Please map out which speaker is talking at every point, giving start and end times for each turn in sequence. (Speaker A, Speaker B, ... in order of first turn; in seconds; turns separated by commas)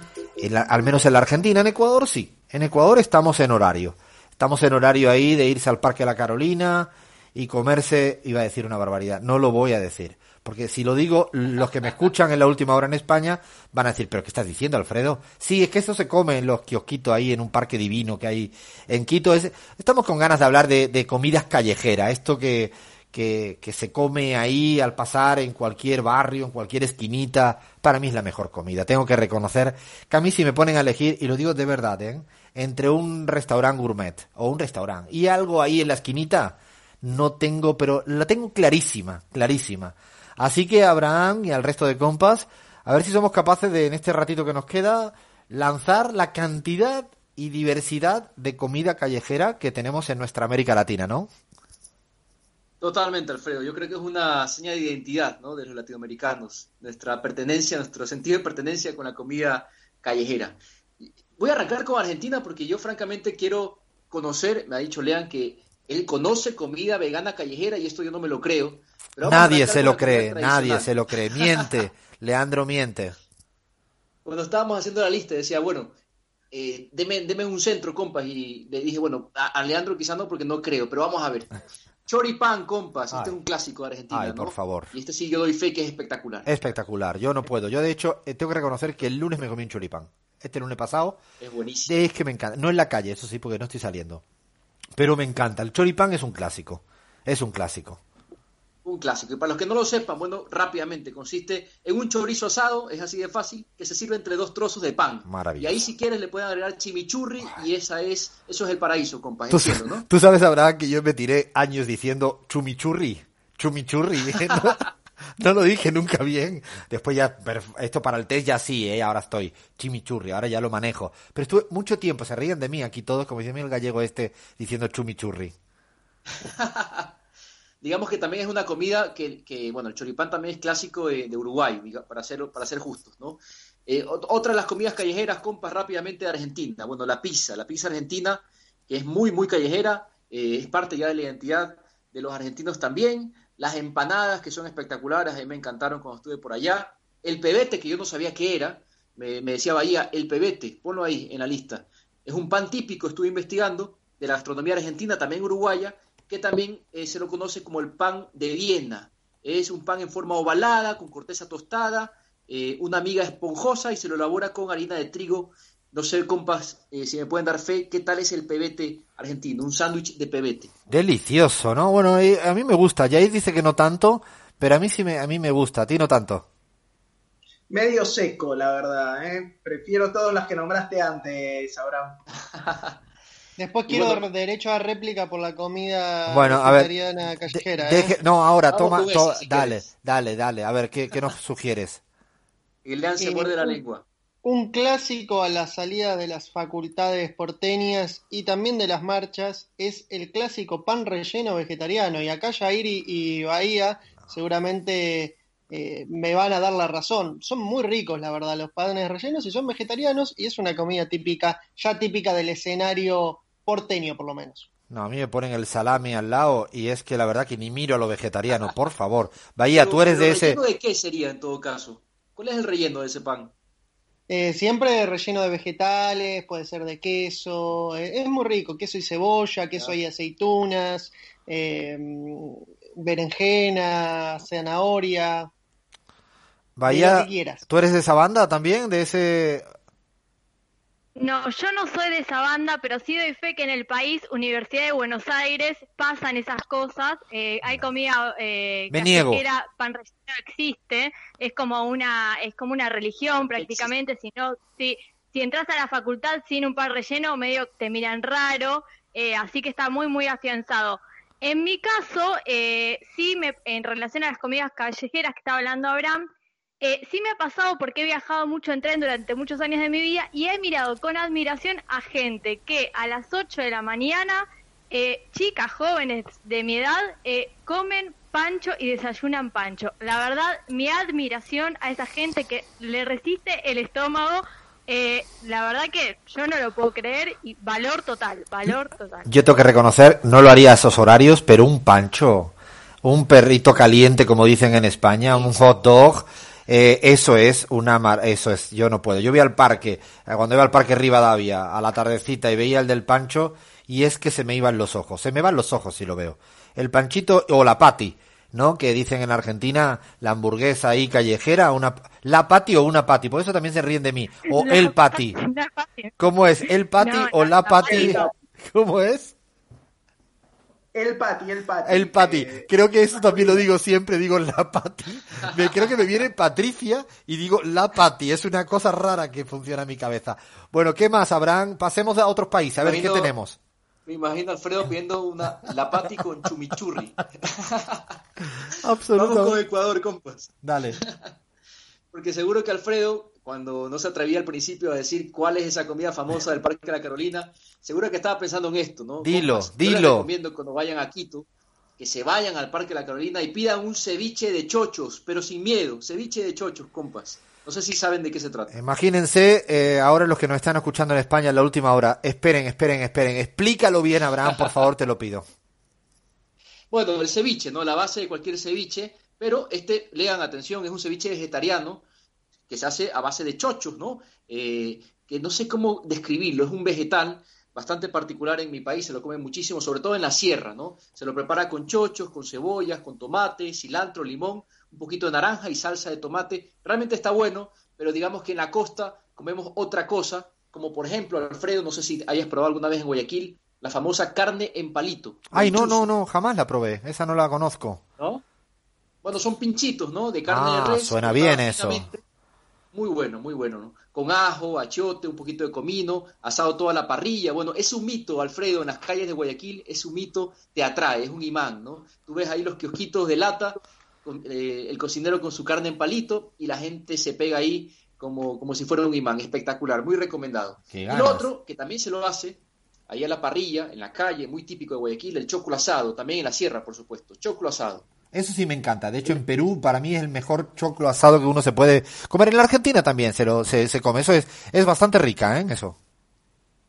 Speaker A: 0.4-51.3, Speaker B: 52.8-60.6, Speaker B: 61.2-71.5, Speaker A: 69.2-73.2, Speaker B: 74.2-75.9, Speaker B: 76.5-81.5, Speaker B: 82.1-86.5, Speaker A: 83.1-83.4, Speaker A: 84.1-84.9, Speaker A: 86.5-91.2, Speaker B: 91.4-92.0, Speaker A: 91.9-94.2, Speaker A: 95.0-98.0, Speaker B: 98.8-110.1, Speaker A: 105.2-105.8, Speaker A: 109.5-114.8, Speaker A: 115.4-125.5, Speaker B: 126.5-127.1, Speaker B: 127.8-170.7, Speaker A: 170.9-176.5, Speaker C: 177.7-182.2, Speaker B: 182.6-183.0, Speaker D: 183.6-188.2, Speaker B: 183.9-184.2, Speaker A: 186.3-186.9, Speaker A: 187.5-192.0, Speaker B: 188.7-189.9, Speaker B: 192.8-194.1, Speaker D: 193.2-193.8, Speaker D: 194.4-214.7, Speaker A: 214.9-220.6, Speaker B: 219.7-223.5, Speaker D: 224.3-235.5, Speaker A: 236.8-239.6, Speaker D: 236.9-237.7, Speaker E: 241.2-266.3, Speaker A: 248.9-249.4, Speaker B: 253.5-253.9, Speaker E: 266.8-289.3, Speaker A: 289.3-315.4, Speaker B: 295.3-295.7, Speaker E: 314.5-316.1, Speaker A: 316.2-319.4, Speaker E: 317.0-318.2, Speaker C: 317.9-318.3, Speaker C: 320.9-323.6, Speaker A: 321.9-333.6, Speaker B: 332.8-333.3, Speaker B: 334.1-338.2, Speaker A: 338.6-339.6, Speaker B: 339.1-341.3, Speaker A: 340.6-341.0, Speaker B: 342.1-351.5, Speaker A: 349.2-350.3, Speaker B: 352.0-358.7, Speaker A: 358.7-365.5, Speaker B: 366.9-372.0, Speaker B: 372.7-396.1, Speaker A: 395.5-398.0, Speaker B: 398.2-398.4, Speaker B: 399.2-402.2, Speaker A: 400.5-402.1, Speaker B: 402.9-428.1, Speaker A: 420.9-421.5, Speaker A: 428.3-436.0